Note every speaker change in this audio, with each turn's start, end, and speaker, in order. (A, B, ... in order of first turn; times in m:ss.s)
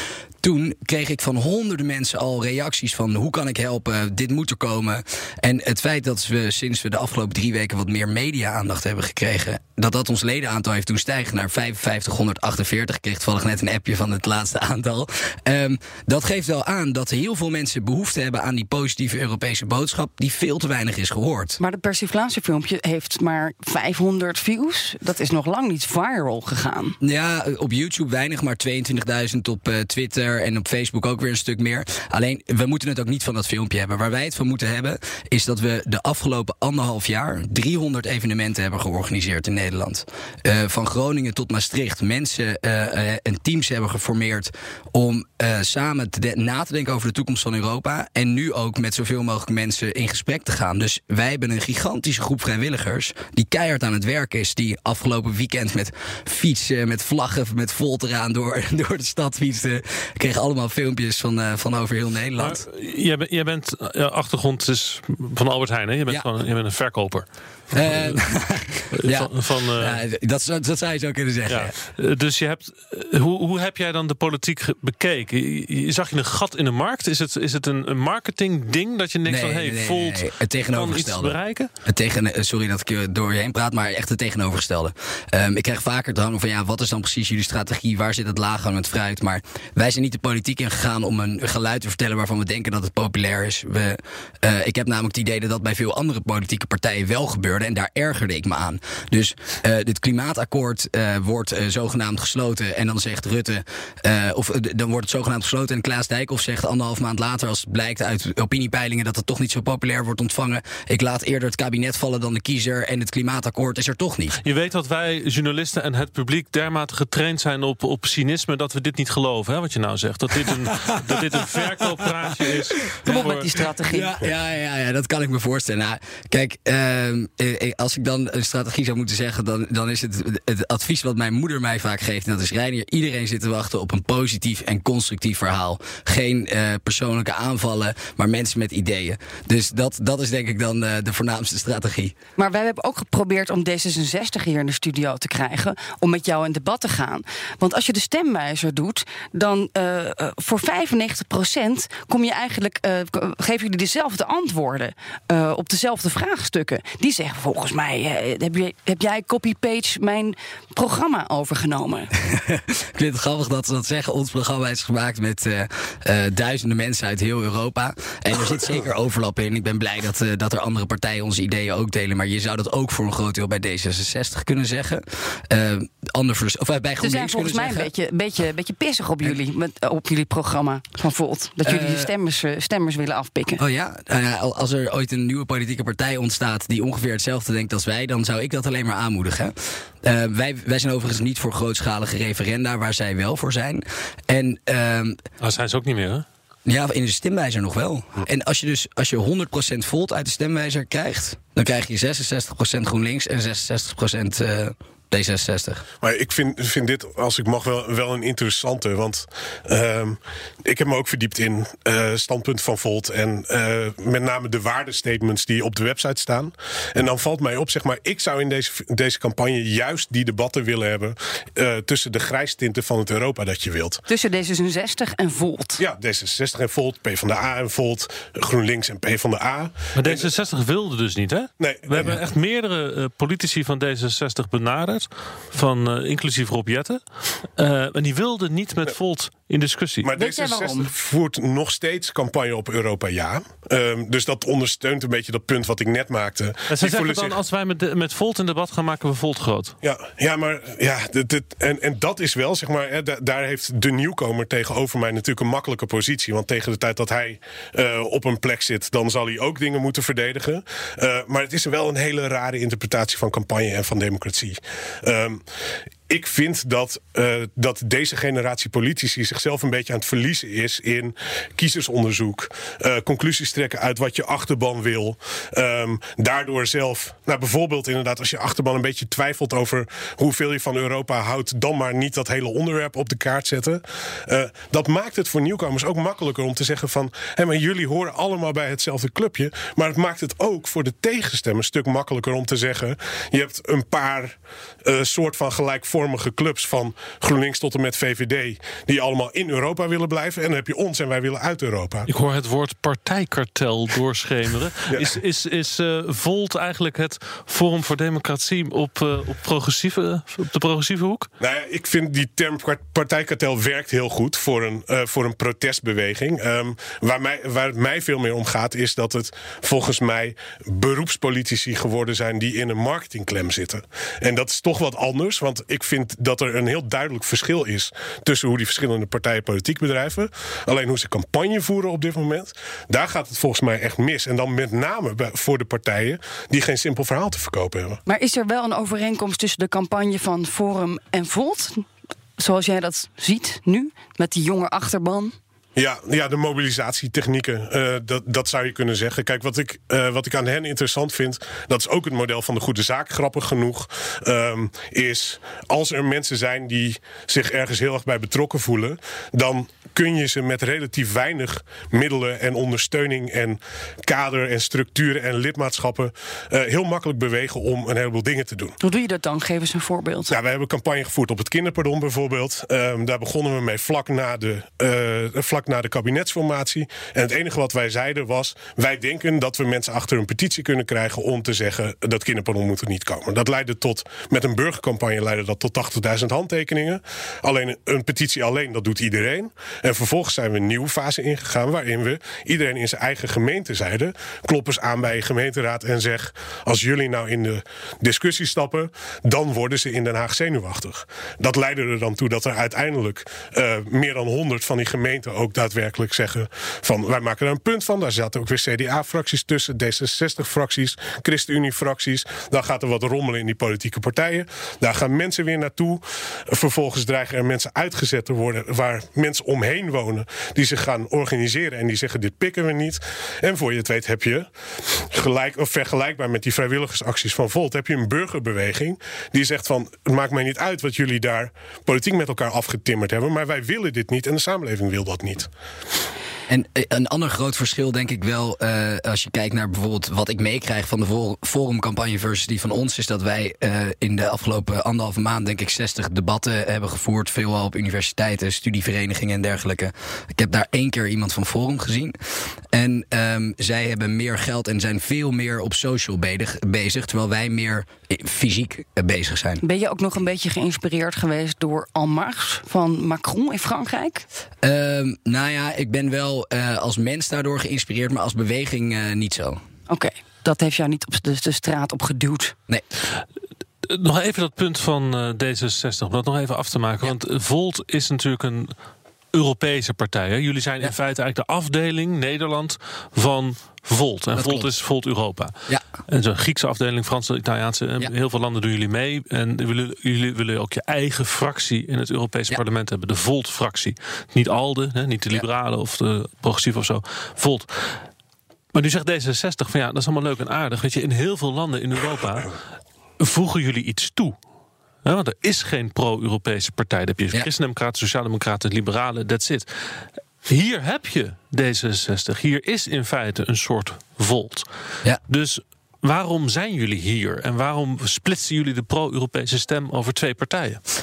0:00.4-0:21.6 A
0:21.6-0:27.0 B
0:27.0-1:02.6 A
1:02.4-1:08.2 C
1:07.7-1:11.7 A
1:08.9-1:10.0 C
1:11.5-1:21.7 C
1:19.2-1:54.4 A
1:54.4-2:03.5 C
2:00.5-2:03.3 A
2:03.0-2:04.1 B
2:03.8-2:22.1 A
2:22.4-2:42.1 B
2:42.2-2:57.9 A
2:57.0-3:03.6 B
3:01.6-3:02.1 A
3:03.6-3:15.2 A
3:15.4-3:16.2 C
3:16.6-3:25.8 A
3:26.0-3:44.0 D
3:44.1-3:45.8 B
3:45.8-3:50.3 D
3:49.9-3:57.0 C
3:51.6-3:52.2 D
3:57.6-4:00.1 C
4:00.0-4:07.4 D
4:00.1-4:00.9 B
4:06.7-4:09.8 C
4:09.8-4:25.4 D
4:26.1-5:02.1 D
5:02.1-5:11.3 C
5:04.9-5:05.1 D
5:11.4-5:38.0 D
5:38.1-5:41.8 B
5:42.4-5:45.3 B
5:45.8-6:08.8 D
6:08.8-6:10.3 B
6:10.3-7:04.5 D
7:05.1-7:15.5 D
7:16.5-7:32.2 A
7:32.7-7:39.6 A
7:39.6-7:44.2 B
7:44.6-7:49.6 A
7:49.9-7:52.5 B
7:53.9-7:58.7 C
7:59.3-8:05.5 C
8:04.3-8:04.7 A
8:06.1-8:18.0 C
8:18.7-8:22.6 C
8:23.2-8:24.4 C
8:25.0-8:29.7 C
8:30.4-8:34.7 C
8:35.3-8:40.8 C